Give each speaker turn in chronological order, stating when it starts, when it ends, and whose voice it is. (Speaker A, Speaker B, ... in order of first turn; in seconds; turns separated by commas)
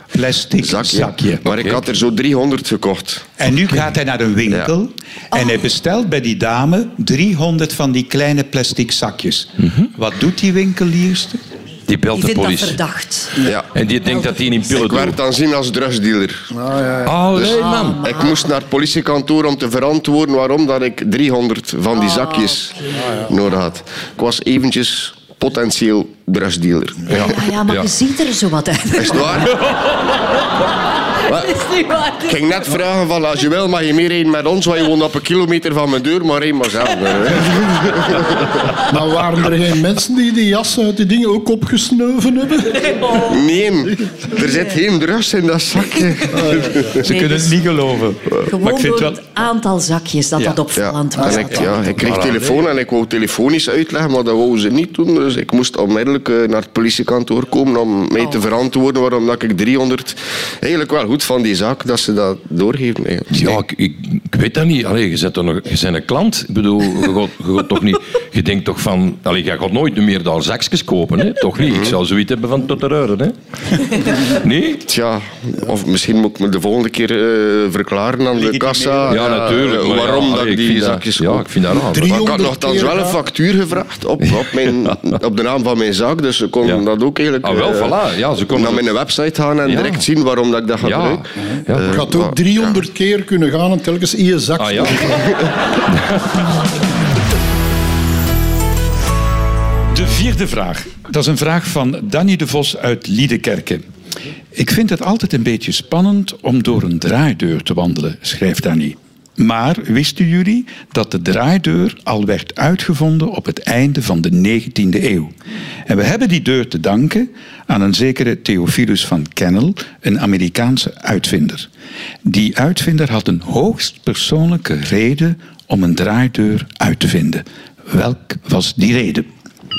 Speaker A: 0.1-1.4, Speaker B: 0.6-3.3, Speaker C: 1.4-1.8, Speaker A: 3.4-11.4, Speaker C: 11.9-12.8, Speaker D: 12.1-13.4, Speaker C: 13.7-15.2, Speaker B: 14.7-16.5, Speaker E: 16.5-17.2, Speaker C: 17.0-18.1, Speaker B: 17.4-27.4, Speaker D: 17.6-18.1, Speaker D: 27.1-29.5, Speaker B: 29.0-29.7, Speaker B: 31.3-31.6, Speaker D: 31.3-32.4, Speaker B: 32.2-38.6, Speaker E: 38.8-43.2, Speaker B: 43.2-47.0, Speaker E: 46.3-46.9, Speaker A: 47.0-49.2, Speaker D: 47.0-47.5, Speaker D: 48.4-51.7, Speaker B: 50.8-63.6, Speaker C: 51.9-52.6, Speaker C: 63.3-74.8, Speaker B: 71.6-72.0, Speaker B: 74.8-88.0, Speaker A: 78.4-79.3, Speaker C: 79.1-82.3, Speaker E: 81.8-83.2, Speaker C: 87.4-88.9, Speaker B: 88.5-91.2, Speaker C: 89.7-90.0, Speaker C: 90.8-92.0, Speaker B: 91.8-92.8, Speaker E: 91.8-95.3, Speaker C: 94.6-95.2, Speaker C: 95.9-96.4, Speaker A: 99.9-103.8, Speaker A: 104.5-115.3, Speaker A: 115.9-121.7, Speaker A: 122.2-129.3